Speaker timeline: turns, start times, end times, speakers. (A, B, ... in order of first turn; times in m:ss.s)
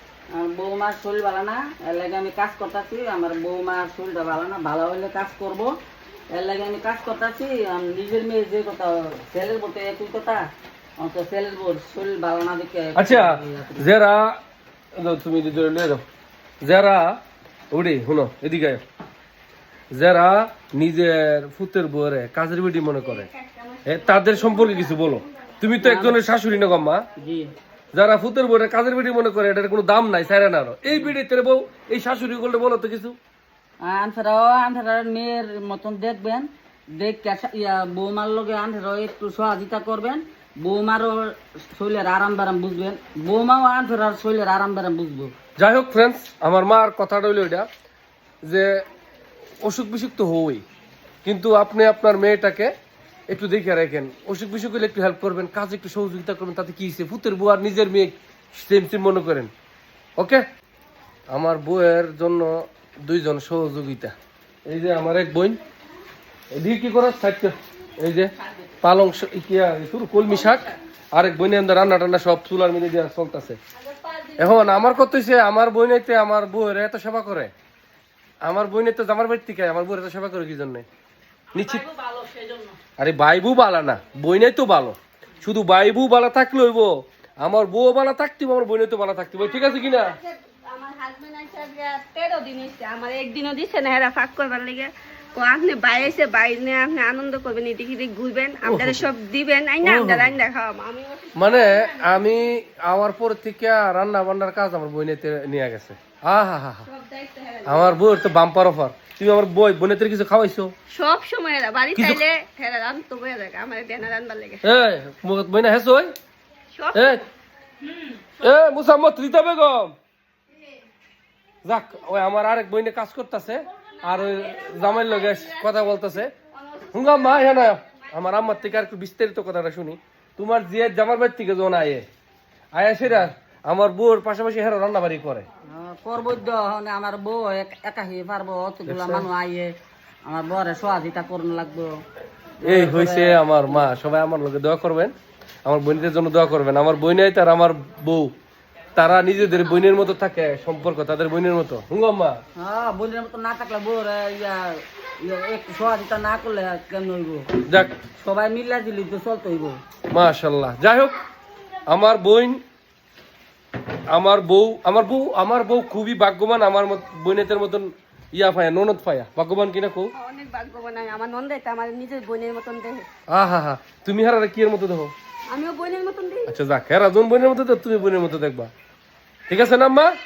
0:00.3-0:05.7 A
0:06.3-0:10.5 A
0:11.0-0:13.9 A
0:13.0-0:14.4 B
0:14.9-0:16.0 B
0:16.6-0:17.2 B
0:17.7-0:18.8 B
0:19.9-0:23.3 B
0:23.1-0:25.1 C
0:23.8-0:27.0 B
0:25.8-0:26.2 A
0:27.2-0:27.5 A
0:27.9-0:33.2 B
0:33.8-0:45.3 A
0:45.6-0:47.7 B
0:48.4-0:48.8 B
0:49.6-0:50.6 B
0:51.2-0:52.7 B
0:53.3-0:59.5 B
1:00.2-1:00.4 B
1:01.3-1:04.1 B
1:04.7-1:05.6 B
1:06.5-1:08.3 B
1:08.8-1:13.6 B
1:10.4-1:10.7 C
1:13.8-1:14.8 C
1:14.4-1:17.5 B
1:18.4-1:20.8 B
1:21.5-1:21.8 B
1:22.0-1:22.6 C
1:23.0-1:30.2 B
1:29.4-1:42.4 C
1:38.6-1:39.0 B
1:39.8-1:40.3 B
1:41.3-1:46.9 B
1:46.8-1:48.0 C
1:47.6-1:50.7 B
1:50.9-1:54.6 C
1:52.0-1:52.2 B
1:54.6-1:56.1 B
1:56.7-1:57.2 C
1:56.9-1:57.2 B
1:58.4-1:59.9 B
2:01.6-2:06.3 B
2:04.0-2:05.7 C
2:06.3-2:07.7 C
2:06.9-2:12.0 B
2:12.7-2:15.4 B
2:15.7-2:19.7 A
2:18.9-2:19.2 B
2:20.2-2:21.9 A
2:22.6-2:23.7 A
2:22.6-2:28.3 B
2:29.0-2:32.4 B
2:32.6-2:37.5 A
2:37.7-2:38.0 B
2:38.2-2:39.8 A
2:40.1-2:41.2 B
2:41.9-2:42.6 B
2:44.1-2:50.1 B
2:50.1-2:53.1 C
2:53.3-2:55.1 B
2:55.5-2:56.6 C
2:56.5-2:58.7 B
2:59.5-3:00.1 B